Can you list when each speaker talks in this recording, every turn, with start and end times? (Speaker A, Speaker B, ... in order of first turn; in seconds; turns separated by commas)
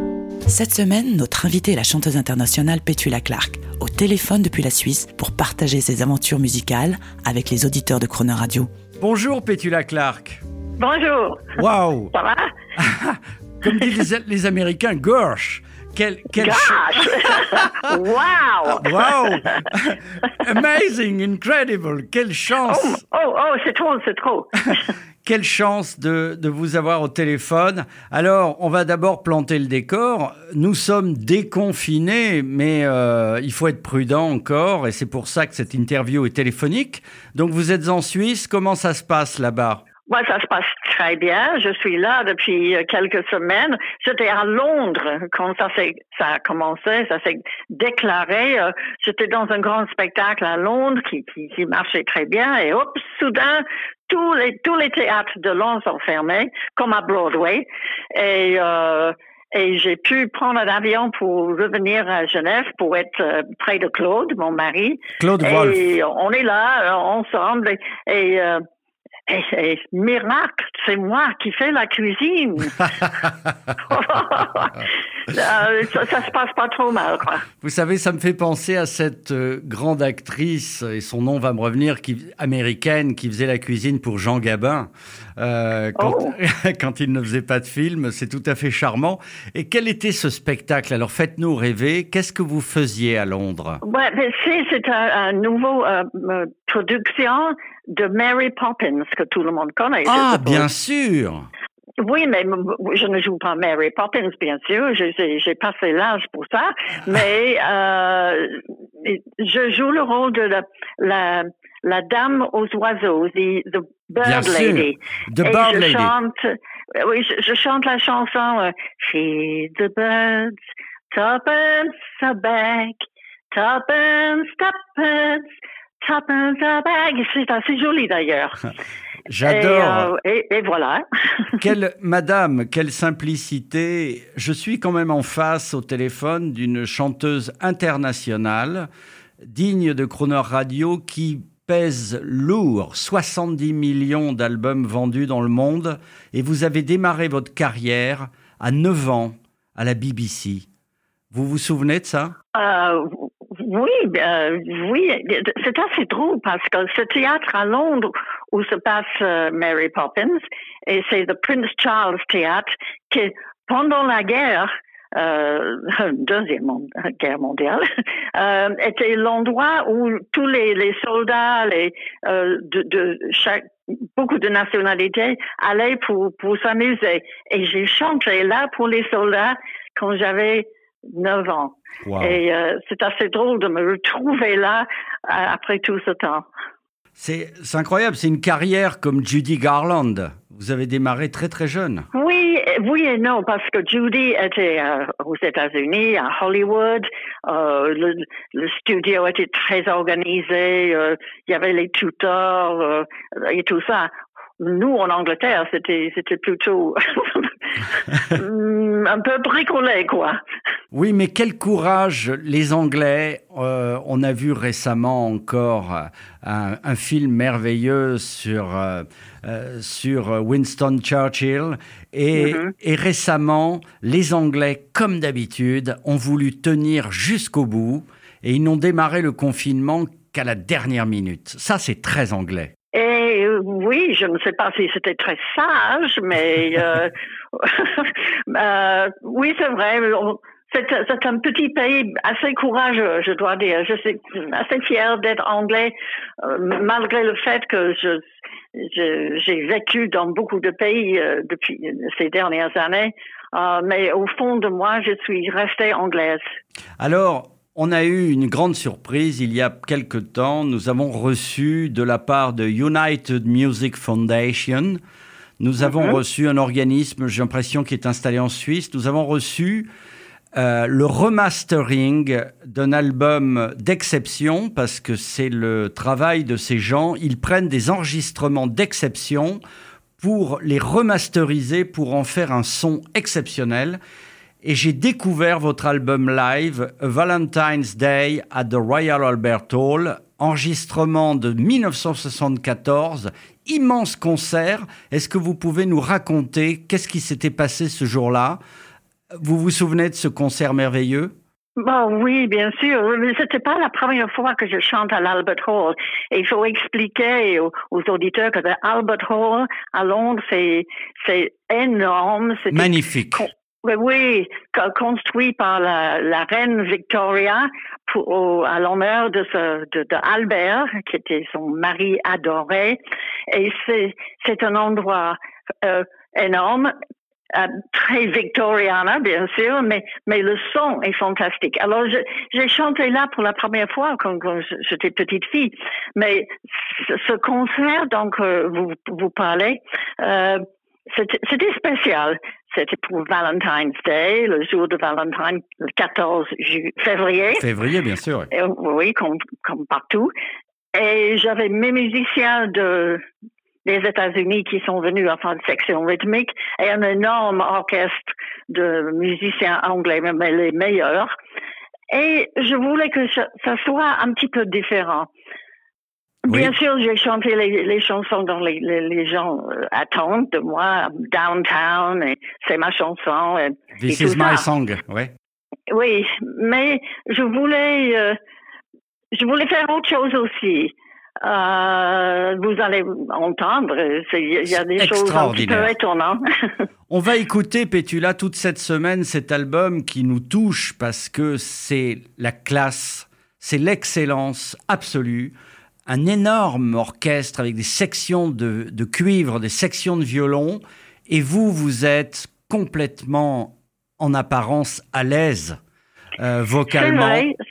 Speaker A: 0.5-8.7, Speaker B: 9.0-10.4, Speaker C: 10.8-11.5, Speaker B: 11.6-12.1, Speaker C: 12.1-12.4, Speaker B: 12.8-17.6, Speaker C: 16.4-19.5, Speaker B: 18.7-23.0, Speaker C: 22.7-24.8, Speaker B: 25.2-39.8, Speaker C: 40.1-68.6, Speaker B: 65.2-65.9, Speaker C: 69.3-72.9, Speaker C: 73.8-77.4, Speaker B: 77.6-93.8, Speaker C: 86.0-86.3, Speaker C: 93.8-100.7, Speaker B: 100.0-101.5, Speaker C: 102.0-120.6, Speaker B: 114.2-116.1, Speaker C: 121.1-125.5, Speaker C: 126.0-128.6, Speaker B: 129.3-130.1, Speaker C: 129.4-131.5, Speaker B: 131.6-138.9, Speaker B: 139.4-150.7, Speaker B: 151.3-152.3, Speaker C: 152.6-167.8, Speaker C: 168.3-173.6, Speaker C: 174.2-186.4, Speaker B: 182.0-182.4, Speaker B: 187.2-192.1, Speaker C: 192.1-207.8, Speaker C: 208.3-210.4, Speaker B: 210.9-232.7, Speaker C: 222.4-222.7, Speaker C: 232.9-248.2, Speaker C: 248.8-256.4, Speaker B: 257.0-265.0, Speaker B: 265.6-269.9, Speaker C: 265.9-266.1, Speaker B: 270.6-279.6, Speaker B: 280.2-284.0, Speaker B: 284.6-298.6, Speaker B: 299.4-301.3, Speaker C: 301.8-323.0, Speaker B: 312.7-313.5, Speaker C: 323.5-326.9, Speaker C: 327.5-347.7, Speaker B: 347.6-348.5, Speaker C: 348.5-350.3, Speaker C: 350.9-353.2, Speaker C: 353.9-361.3, Speaker C: 362.1-365.3, Speaker C: 366.5-374.7, Speaker B: 366.5-366.7, Speaker B: 374.0-375.3, Speaker C: 375.9-378.4, Speaker C: 379.4-380.9, Speaker C: 381.4-386.4, Speaker B: 384.7-385.9, Speaker B: 387.1-395.6, Speaker B: 396.1-405.8, Speaker B: 406.4-407.5, Speaker C: 406.9-407.6